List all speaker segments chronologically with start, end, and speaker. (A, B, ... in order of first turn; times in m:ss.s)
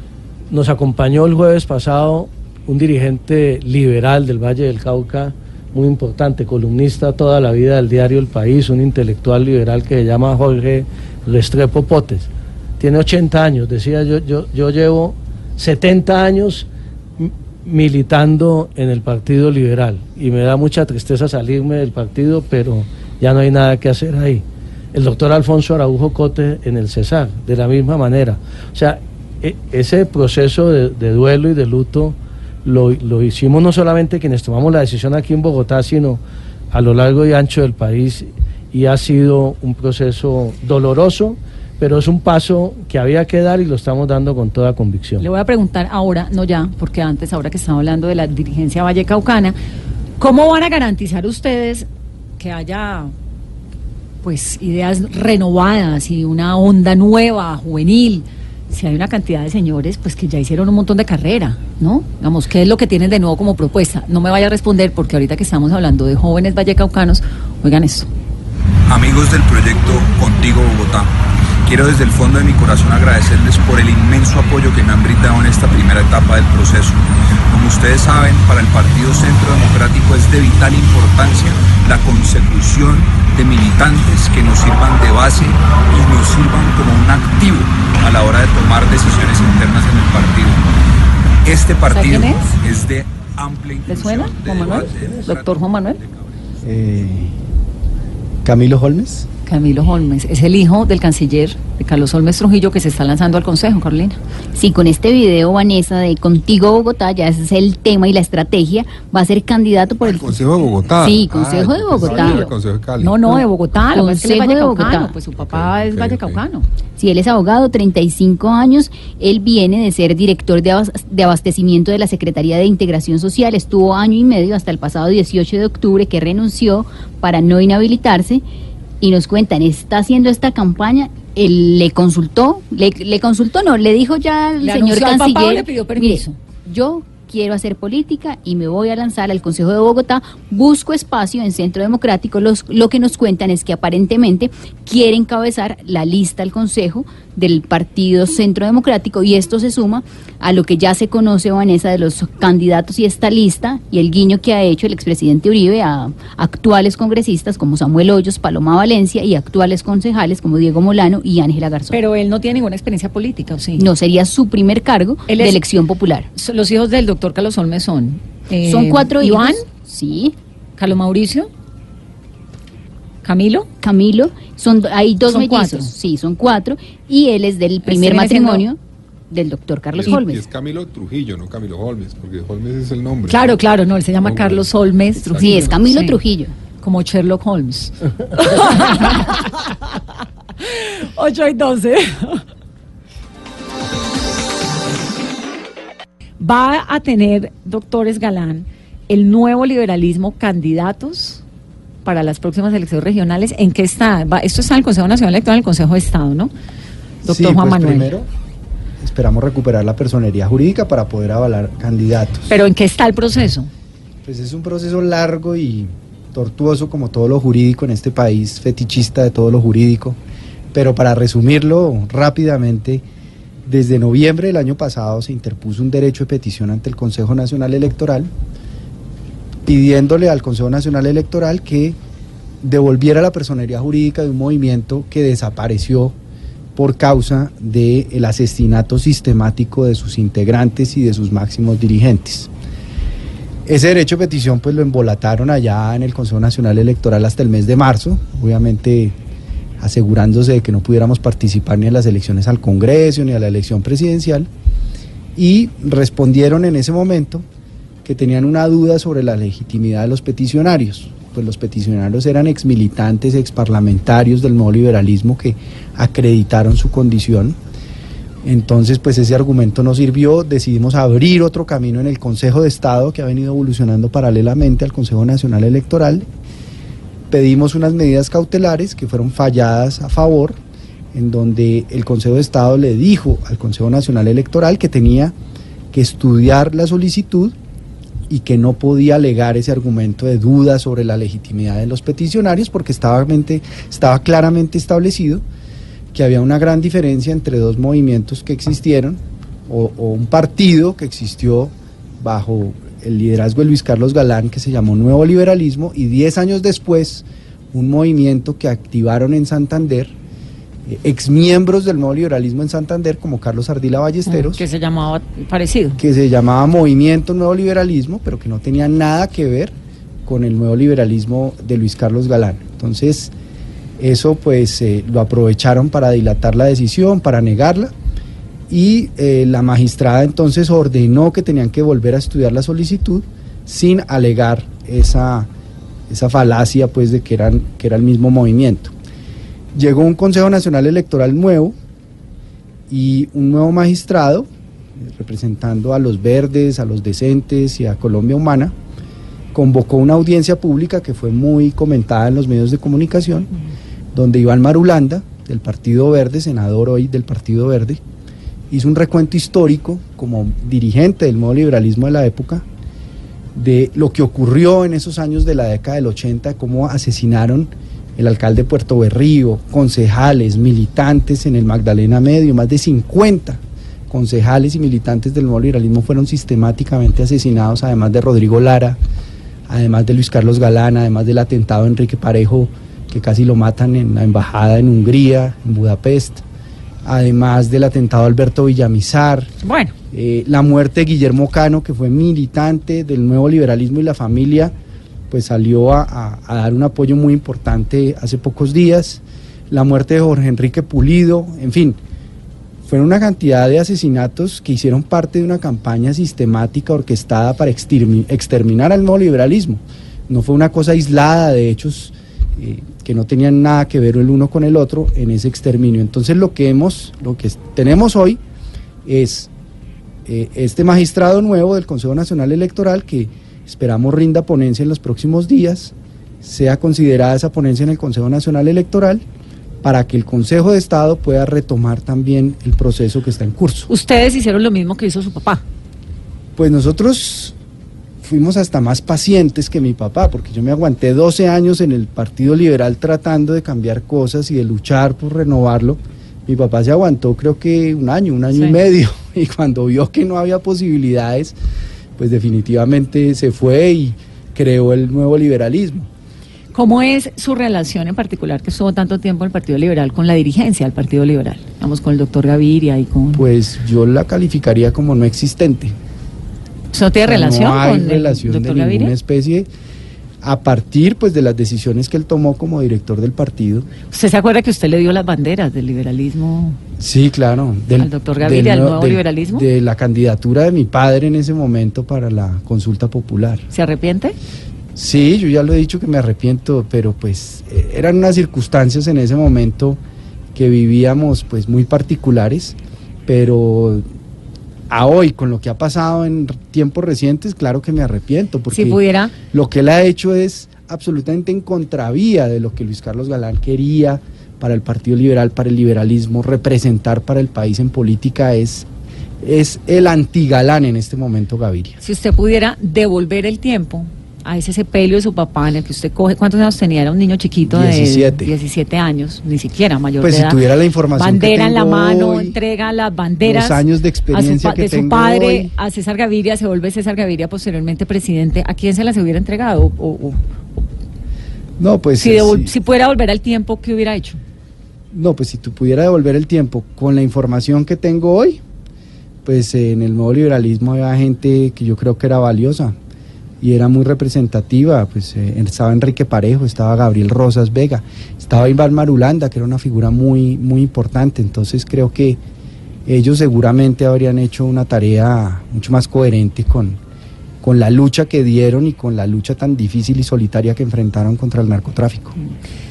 0:00.5-0:12.3 A
0:12.8-0:16.7 A
0:17.2-0:36.2 A
0:36.7-0:45.3 A
0:45.2-0:49.6 B
0:50.2-0:51.9 B
0:52.4-0:53.1 B
0:54.2-1:08.1 B
1:08.9-1:30.6 C
1:31.4-1:36.1 C
1:31.9-1:32.6 B
1:33.9-1:36.0 B
1:36.6-1:37.3 D
1:38.4-1:39.3 D
1:39.4-1:44.2 B
1:44.5-1:50.4 E
1:50.0-1:53.2 F
1:51.0-1:52.5 E
1:52.0-1:52.4 B
1:53.0-1:56.6 B
1:53.3-1:55.1 E
1:55.4-1:56.4 F
1:57.0-2:08.4 E
2:09.0-2:42.0 E
2:14.6-2:16.4 B
2:41.9-2:43.9 B
2:43.8-2:46.3 E
2:45.3-2:45.6 B
2:46.4-2:49.6 B
2:48.6-2:50.3 E
2:50.8-2:51.5 B
2:53.2-2:53.7 B
2:53.8-2:58.8 E
2:55.2-2:55.9 B
2:57.8-2:58.6 B
2:59.3-3:00.4 E
2:59.9-3:03.6 F
3:03.3-3:06.2 B
3:04.2-3:05.7 F
3:05.4-3:06.5 E
3:06.8-3:09.7 B
3:10.6-3:12.4 B
3:16.4-3:21.4 B
3:22.0-3:26.5 B
3:27.2-3:28.3 D
3:27.2-3:28.1 B
3:29.0-3:32.5 D
3:32.5-3:33.7 B
3:34.2-3:40.2 D
3:40.7-3:43.0 D
3:43.6-3:48.3 D
3:49.6-3:52.0 D
3:52.6-3:56.2 D
3:56.8-4:02.5 D
4:03.6-4:09.1 D
4:09.8-4:14.5 D
4:15.4-4:17.4 D
4:18.0-4:27.6 D
4:28.4-4:36.3 D
4:37.3-4:40.6 D
4:41.1-4:45.3 D
4:45.9-4:47.5 D
4:48.3-4:55.4 D
4:56.1-5:10.1 D
5:10.8-5:14.6 D
5:14.2-5:16.0 B
5:16.0-5:19.7 D
5:20.2-5:23.3 D
5:24.0-5:27.9 D
5:28.7-5:35.5 D
5:36.1-5:38.9 D
5:39.7-5:41.8 D
5:42.9-5:48.7 D
5:49.5-5:53.5 D
5:54.1-5:58.0 D
5:58.7-6:02.6 D
6:03.5-6:19.0 D
6:19.7-6:26.4 D
6:27.0-6:29.5 D
6:29.6-6:29.9 B
6:30.1-6:34.7 D
6:35.3-6:42.0 D
6:42.8-6:58.4 D
6:59.0-6:59.5 D
7:00.2-7:09.2 D
7:09.8-7:13.9 D
7:13.9-7:15.6 B
7:16.6-7:17.5 D
7:18.2-7:31.5 D
7:32.2-7:36.1 D
7:36.7-7:43.4 B
7:43.3-7:46.0 D
7:46.9-7:49.1 B
7:47.2-7:49.7 D
7:50.4-7:53.9 D
7:54.1-7:56.8 B
7:57.0-8:03.6 D
7:58.0-7:59.6 B
8:03.7-8:04.4 B
8:04.9-8:10.0 D
8:10.5-8:12.8 D
8:13.3-8:14.0 D
8:14.9-8:19.0 D
8:18.7-8:19.3 B
8:19.5-8:28.9 D
8:29.4-8:32.0 D
8:32.0-8:40.6 B
8:37.7-8:38.5 D
8:40.2-8:42.6 D
8:41.2-8:50.4 B
8:43.4-8:45.7 D
8:51.8-8:52.7 D
8:52.2-8:54.4 B
8:55.1-8:58.6 D
8:59.4-9:02.9 D
9:03.6-9:12.4 D
9:13.0-9:17.0 D
9:17.6-9:22.3 D